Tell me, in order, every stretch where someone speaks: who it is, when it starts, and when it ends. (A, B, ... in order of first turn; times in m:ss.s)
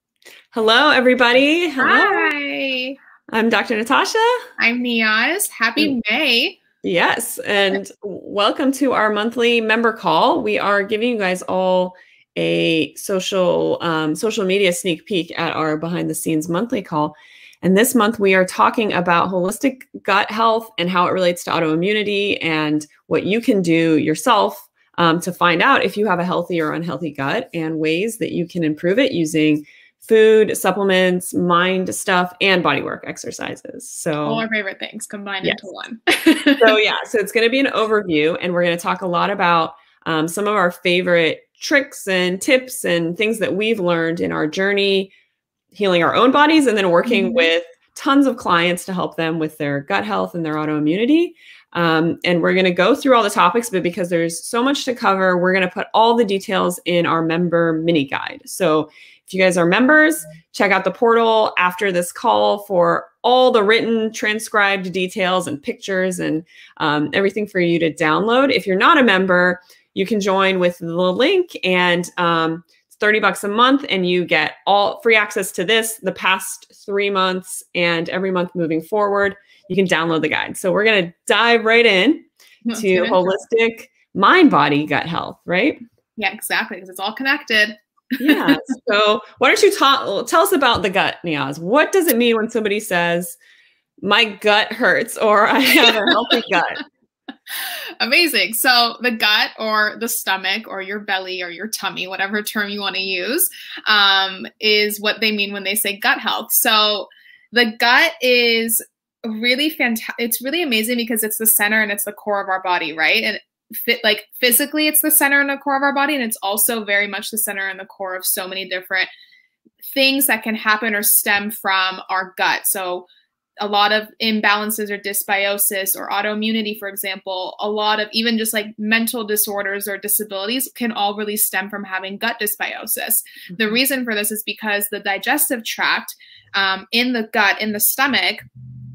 0:00.5-0:02.3 A
0:01.8-0:03.0 B
0:03.3-0:04.4 A
0:04.6-0:06.6 B
0:06.8-0:34.4 A
0:34.2-0:36.7 B
0:36.6-0:45.1 A
0:45.7-1:25.8 A
0:47.0-0:47.5 B
1:22.6-1:23.2 B
1:26.2-1:28.6 B
1:28.2-1:33.4 A
1:34.0-1:36.8 A
1:35.8-1:36.6 B
1:37.5-1:59.1 B
1:59.8-2:03.1 B
2:03.6-2:18.4 B